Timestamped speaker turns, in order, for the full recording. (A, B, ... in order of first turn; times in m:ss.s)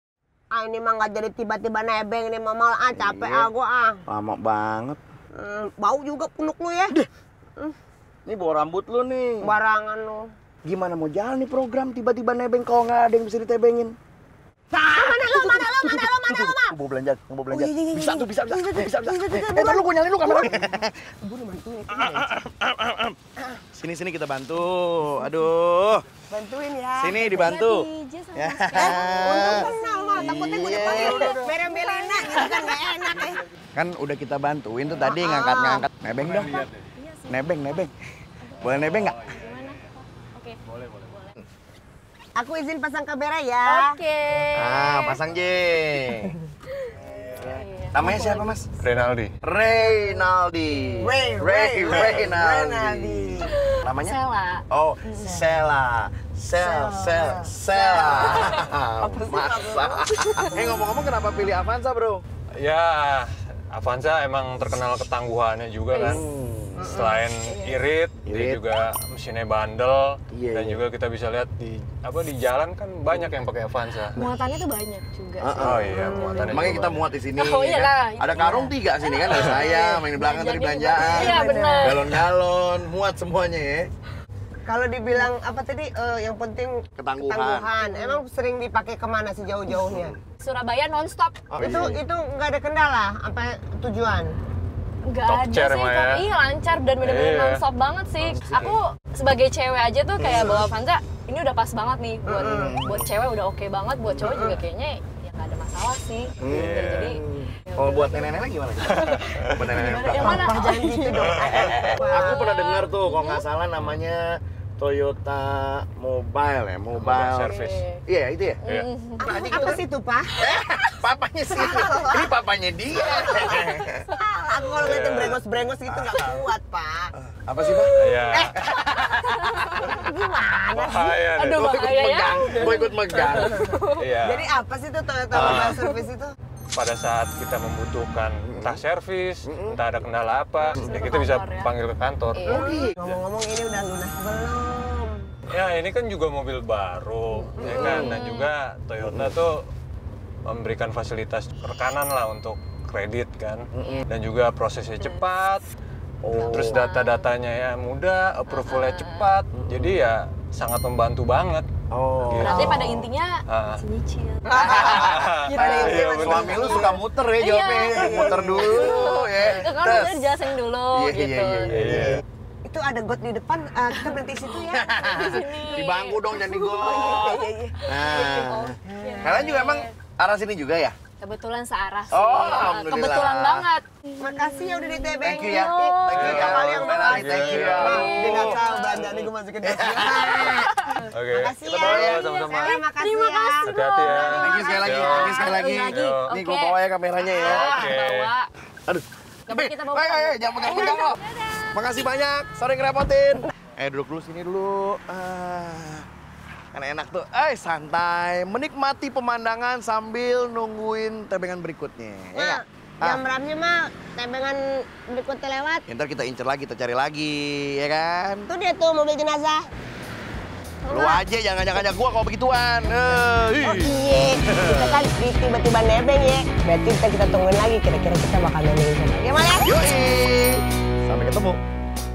0:00.5-0:04.0 A
0:02.9-0:03.5 B
0:04.1-0:05.0 B
0:05.4-0:06.9 A
0:08.2-0:09.5 B
0:09.4-0:10.2 A
0:10.6-0:13.9 B
0:14.7-0:16.7 A
0:15.0-0:20.9 B
0:17.5-0:22.4 A
0:22.0-0:23.2 B
0:23.7-0:26.0 B
0:26.3-0:27.4 A
0:27.0-0:31.4 B
0:27.2-0:32.5 C
0:28.7-0:33.4 A
0:33.7-0:36.6 B
0:35.0-0:35.8 A
0:36.6-0:37.8 C
0:37.3-0:37.9 B
0:38.5-0:41.4 C
0:38.6-0:39.3 B
0:42.4-0:44.0 A
0:43.6-0:45.2 C
0:44.5-0:46.4 B
0:46.7-0:48.6 C
0:47.4-0:48.6 B
0:48.8-0:49.3 D
0:49.4-0:54.2 B
0:51.0-0:53.5 A
0:53.6-0:54.6 C
0:54.7-1:02.2 B
0:55.2-0:55.5 A
0:56.6-1:00.6 A
0:58.3-0:58.6 C
1:00.2-1:00.6 C
1:02.6-1:06.2 D
1:05.9-1:06.2 C
1:06.0-1:06.9 B
1:06.8-1:07.2 A
1:06.8-1:14.2 D
1:07.0-1:07.8 C
1:08.2-1:08.6 B
1:10.3-1:10.8 B
1:14.1-1:22.0 C
1:15.4-1:15.9 B
1:15.6-1:17.0 D
1:15.9-1:16.5 A
1:16.5-1:23.9 B
1:19.3-1:19.6 D
1:19.7-1:20.0 A
1:20.9-1:22.1 A
1:24.6-1:30.1 A
1:27.0-1:27.7 B
1:27.8-1:28.2 C
1:30.4-1:31.8 C
1:31.5-1:32.0 B
1:31.6-1:34.3 A
1:35.1-1:53.4 C
1:35.2-1:36.2 D
1:37.0-1:37.6 D
1:38.2-1:38.8 B
1:40.2-1:40.6 B
1:42.2-1:42.7 A
1:42.4-1:43.1 B
1:44.2-1:44.6 A
1:46.4-1:50.5 B
1:46.5-1:46.9 D
1:49.1-1:49.8 D
1:50.1-1:52.5 A
1:51.2-1:51.9 D
1:51.6-1:58.6 B
1:57.0-1:57.8 D
1:57.4-1:58.0 C
1:58.6-1:59.7 C
1:59.2-2:00.3 A
1:59.2-1:59.8 B
2:00.4-2:04.0 B
2:01.5-2:02.3 A
2:03.0-2:07.1 A
2:03.2-2:04.0 C
2:04.8-2:06.5 B
2:04.8-2:05.4 D
2:07.2-2:09.9 B
2:07.7-2:10.0 C
2:07.9-2:08.9 D
2:09.7-2:11.2 A
2:10.7-2:11.6 D
2:11.1-2:14.0 C
2:11.5-2:13.7 B
2:14.0-2:14.5 D
2:14.2-2:16.3 A
2:15.3-2:15.7 B
2:15.3-2:15.8 D
2:16.7-2:23.2 D
2:18.5-2:18.8 B
2:19.4-2:19.8 B
2:20.6-2:21.7 C
2:22.3-2:22.7 C
2:22.5-2:22.9 B
2:22.5-2:25.3 A
2:25.5-2:29.7 D
2:27.3-2:28.5 C
2:27.6-2:28.2 B
2:29.0-2:29.4 B
2:30.4-2:35.6 D
2:33.7-2:34.0 B
2:33.8-2:34.1 C
2:35.0-2:35.5 C
2:36.2-2:36.8 B
2:36.3-2:37.3 C
2:36.4-2:41.7 D
2:38.5-2:39.3 C
2:39.5-2:40.0 B
2:41.9-2:43.0 B
2:42.2-2:42.9 D
2:42.4-2:51.7 C
2:43.5-2:43.8 D
2:44.5-2:47.0 A
2:44.5-2:52.2 B
2:44.7-2:46.6 D
2:47.8-2:48.9 A
2:51.7-2:52.2 D
2:52.6-2:55.3 A
2:53.9-2:59.9 C
2:54.7-3:00.9 B
2:58.8-2:59.6 A
3:01.2-3:06.3 C
3:02.1-3:03.7 B
3:04.2-3:13.7 A
3:05.2-3:10.6 B
3:06.1-3:08.1 D
3:07.8-3:09.2 C
3:10.0-3:11.1 C
3:11.1-3:12.8 D
3:11.6-3:12.3 B
3:11.9-3:18.5 C
3:13.6-3:16.4 D
3:14.3-3:18.0 B
3:17.4-3:18.3 D
3:18.9-3:21.2 B
3:19.5-3:21.6 C
3:21.7-3:26.0 B
3:26.7-3:33.2 B
3:32.3-3:35.8 A
3:35.9-3:38.5 B
3:38.5-3:39.6 A
3:40.9-3:44.9 B
3:43.0-3:49.7 A
3:49.6-3:51.6 B